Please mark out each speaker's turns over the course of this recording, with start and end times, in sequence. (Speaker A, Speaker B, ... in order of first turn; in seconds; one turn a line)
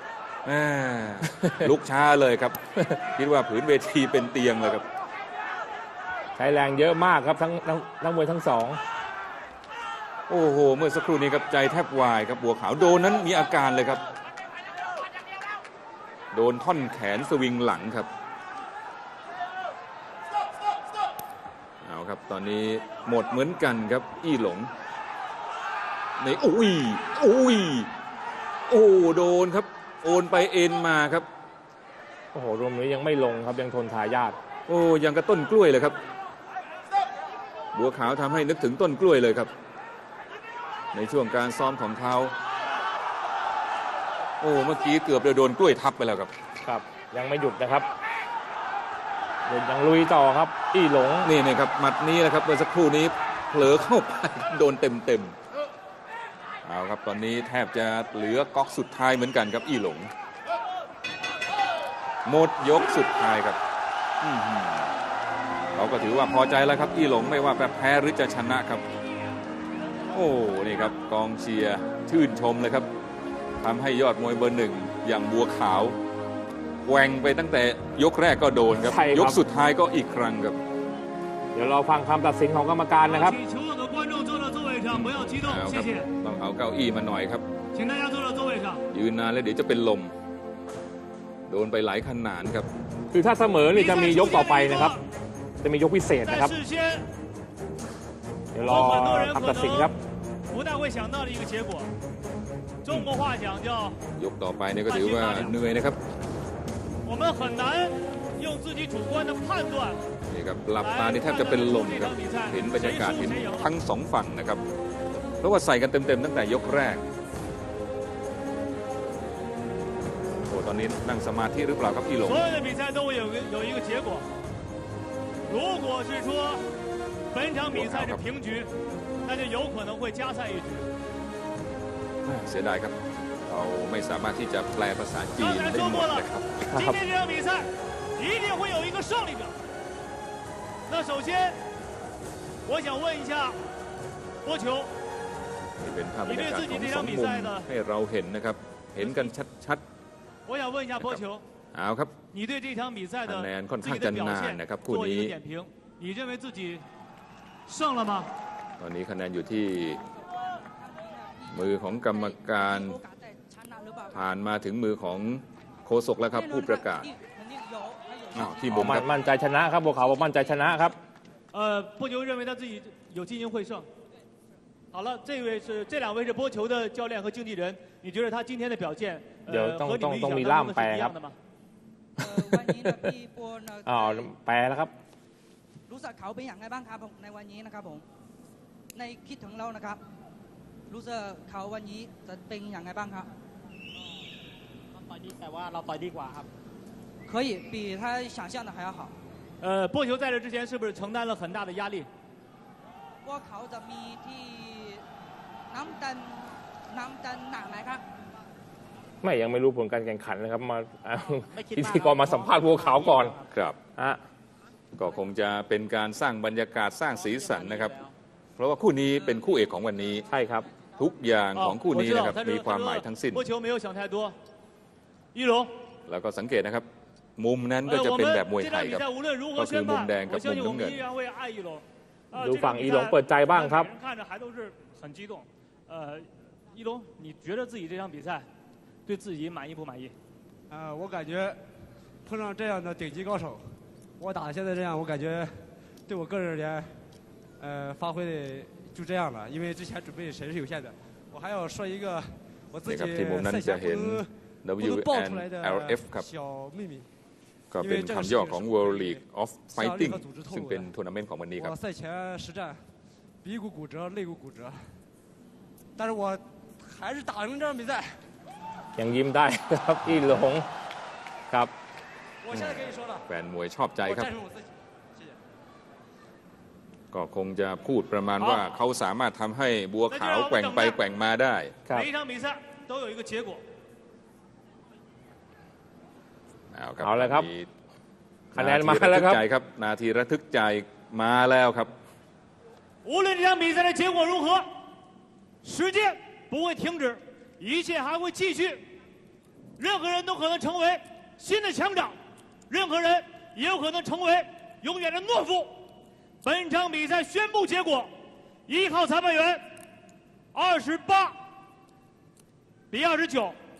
Speaker A: 0.4-4.8
Speaker B: 6.3-8.8
Speaker A: 10.3-14.0
Speaker A: 16.3-18.1
Speaker A: 21.8-24.7
Speaker A: 26.2-27.9
Speaker A: 28.7-31.3
Speaker B: 32.3-34.4
Speaker A: 34.7-36.0
Speaker A: 37.7-39.5
Speaker A: 40.9-42.3
Speaker A: 44.4-46.3
Speaker B: 46.6-47.9
Speaker B: 49.5-51.3
Speaker A: 51.2-55.4
Speaker A: 56.6-60.1
Speaker A: 62.2-63.6
Speaker A: 64.2-64.9
Speaker A: 65.7-68.8
Speaker A: 70.1-72.9
Speaker A: 73.6-76.0
Speaker A: 76.8-80.6
Speaker B: 78.8-79.4
Speaker B: 81.5-83.4
Speaker C: 83.1-86.1
Speaker A: 84.9-87.4
Speaker C: 87.7-88.8
Speaker A: 88.9-90.1
Speaker A: 91.5-92.7
Speaker B: 93.1-94.9
Speaker C: 93.7-95.0
Speaker B: 95.6-96.5
Speaker C: 96.2-97.0
Speaker B: 98.5-99.9
Speaker C: 98.6-99.9
Speaker C: 100.5-101.9
Speaker C: 102.8-104.0
Speaker A: 104.2-106.0
Speaker C: 104.9-105.5
Speaker C: 107.0-110.0
Speaker A: 110.3-114.6
Speaker C: 110.8-113.7
Speaker A: 115.4-117.0
Speaker A: 120.5-122.4
Speaker C: 122.2-124.3
Speaker C: 125.5-126.6
Speaker C: 127.3-128.7
Speaker A: 127.7-128.2
Speaker C: 129.2-130.9
Speaker A: 132.2-132.9
Speaker A: 133.5-136.8
Speaker C: 135.4-139.5
Speaker C: 140.9-141.6
Speaker C: 142.7-143.6
Speaker C: 144.4-144.9
Speaker A: 145.8-149.8
Speaker C: 146.2-147.7
Speaker C: 149.0-149.3
Speaker C: 150.4-151.4
Speaker A: 151.7-152.1
Speaker C: 152.3-156.8
Speaker A: 153.2-155.3
Speaker C: 157.7-158.3
Speaker A: 158.8-160.0
Speaker D: 160.7-164.2
Speaker A: 161.5-163.0
Speaker A: 164.1-167.1
Speaker D: 166.3-168.7
Speaker A: 168.3-169.1
Speaker B: 168.7-170.9
Speaker C: 171.5-173.9
Speaker C: 174.9-181.4
Speaker B: 179.5-181.1
Speaker D: 182.2-184.3
Speaker B: 182.4-182.7
Speaker B: 183.8-184.9
Speaker D: 185.9-188.0
Speaker D: 188.9-190.0
Speaker D: 190.9-193.3
Speaker E: 194.9-196.5
Speaker D: 197.3-199.1
Speaker C: 199.6-202.1
Speaker D: 203.2-205.0
Speaker D: 205.7-208.0
Speaker B: 209.2-213.4
Speaker E: 211.5-213.4
Speaker A: 213.5-213.8
Speaker A: 214.9-218.0
Speaker E: 217.2-218.1
Speaker A: 218.6-220.2
Speaker B: 220.3-220.7
Speaker A: 221.0-223.4
Speaker C: 221.5-224.3
Speaker C: 225.3-225.7
Speaker A: 226.1-231.0
Speaker C: 227.9-238.5
Speaker B: 232.4-233.9
Speaker C: 239.1-240.1
Speaker F: 240.7-241.6
Speaker F: 242.2-247.0
Speaker F: 247.6-257.1
Speaker A: 252.8-256.3
Speaker A: 257.7-261.7
Speaker F: 257.8-260.9
Speaker F: 261.6-262.9
Speaker F: 263.4-265.0
Speaker F: 266.0-268.2
Speaker B: 269.0-270.6
Speaker F: 272.4-273.3
Speaker A: 272.5-274.3
Speaker F: 274.0-275.4
Speaker A: 277.1-281.8
Speaker C: 280.1-281.0
Speaker C: 281.9-283.6
Speaker A: 286.7-287.7
Speaker B: 287.0-287.5
Speaker B: 288.5-289.4
Speaker A: 288.6-291.9
Speaker C: 293.0-294.7
Speaker C: 295.6-298.8
Speaker C: 299.8-302.2
Speaker C: 302.7-305.8
Speaker C: 306.4-308.1
Speaker C: 308.7-309.6
Speaker C: 310.5-311.4
Speaker C: 312.9-313.6